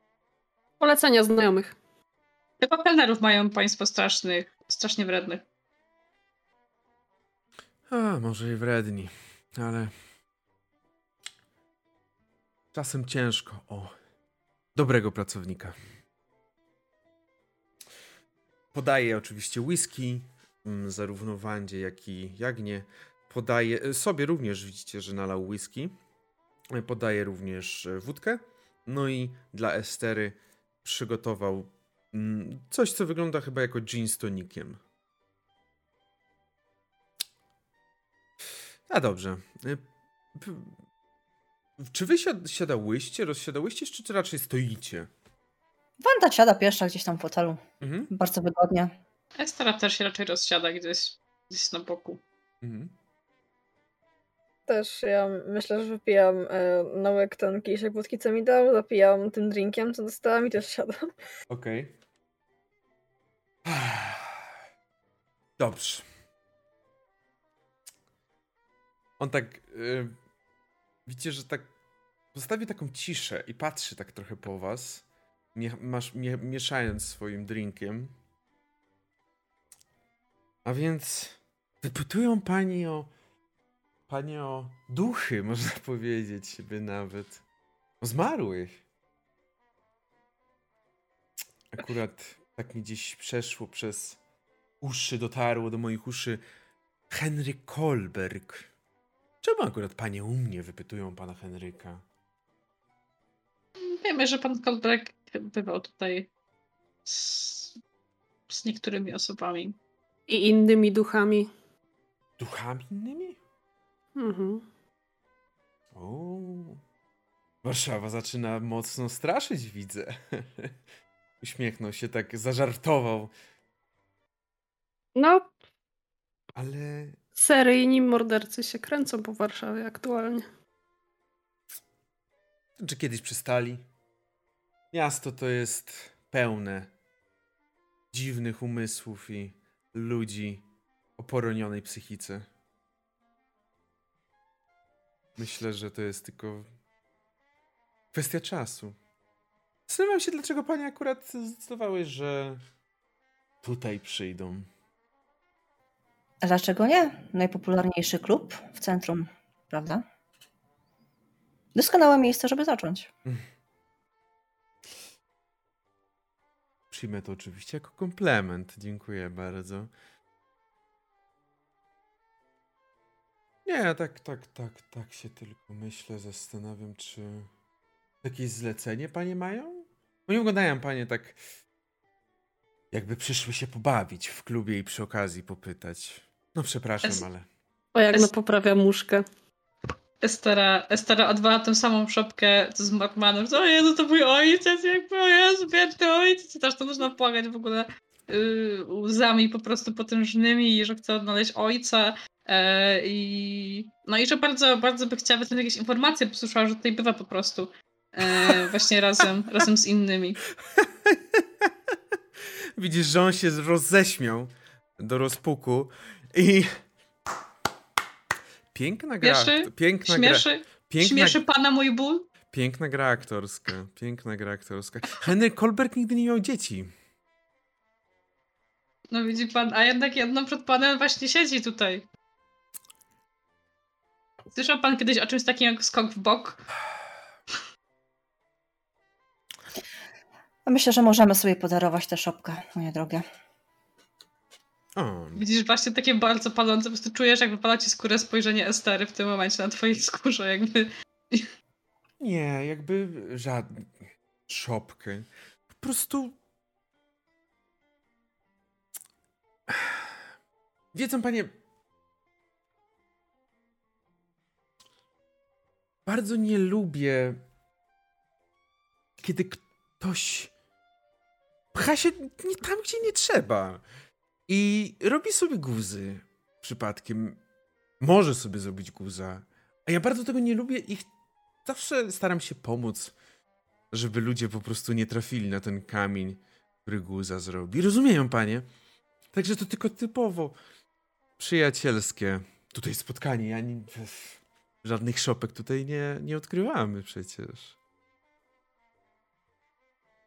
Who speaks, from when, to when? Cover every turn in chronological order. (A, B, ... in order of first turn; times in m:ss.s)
0:00.8-0:01.8 A
0:02.6-0:05.4 B
0:07.9-0:09.9 C
0:12.7-0:13.9 C
0:14.8-0:15.8 C
0:18.7-0:26.0 C
0:26.7-0:34.8 C
0:38.9-0:39.8 C
0:40.4-0:40.8 C
0:41.8-0:45.1 C
0:46.0-0:48.9 D
0:47.8-0:48.1 C
0:49.4-0:52.2 B
0:52.6-0:52.9 C
0:54.7-1:01.1 E
1:01.5-1:02.0 C
1:03.6-1:04.5 C
1:05.6-1:06.1 C
1:09.2-1:10.1 C
1:11.1-1:11.7 C
1:12.3-1:18.1 C
1:20.6-1:23.1 C
1:24.1-1:27.4 C
1:28.0-1:28.8 C
1:31.7-1:34.2 C
1:34.8-1:36.4 C
1:37.1-1:38.7 C
1:39.4-1:42.0 C
1:43.8-1:46.3 B
1:47.1-1:47.7 B
1:48.5-1:49.8 B
1:50.3-1:51.5 A
1:52.4-1:53.4 C
1:54.2-1:54.6 A
1:56.0-1:56.8 C
1:57.6-2:00.7 C
2:01.4-2:03.3 C
2:05.2-2:05.5 A
2:06.6-2:07.2 C
2:07.4-2:10.4 A
2:12.8-2:13.8 C
2:14.9-2:16.9 C
2:18.1-2:20.6 C
2:21.2-2:22.5 C
2:25.4-2:26.7 C
2:28.1-2:29.0 C
2:29.9-2:32.6 C
2:33.6-2:34.7 C
2:36.4-2:40.0 D
2:41.8-2:43.1 D
2:46.9-2:49.9 C
2:53.7-2:57.5 C
2:58.2-3:01.4 C
3:02.9-3:07.5 C
3:07.9-3:09.2 A
3:10.2-3:30.4 B
3:30.8-3:31.7 C
3:32.8-3:36.8 C
3:38.7-3:41.4 C
3:39.2-3:42.3 B
3:42.5-3:46.9 C
3:49.1-3:52.1 B
3:54.5-3:56.6 B
4:00.7-4:03.2 D
4:05.0-4:05.4 C
4:05.4-4:11.5 B
4:12.2-4:13.9 C
4:14.5-4:15.3 C
4:15.8-4:16.4 C
4:19.7-4:20.1 C
4:20.9-4:21.5 C
4:26.1-4:27.4 C
4:29.2-4:30.5 C
4:31.7-4:33.8 C
4:34.5-4:37.4 C
4:38.0-4:41.1 C
4:41.6-4:43.1 C
4:43.9-4:48.7 C
4:49.3-4:50.6 C
4:51.4-4:57.8 C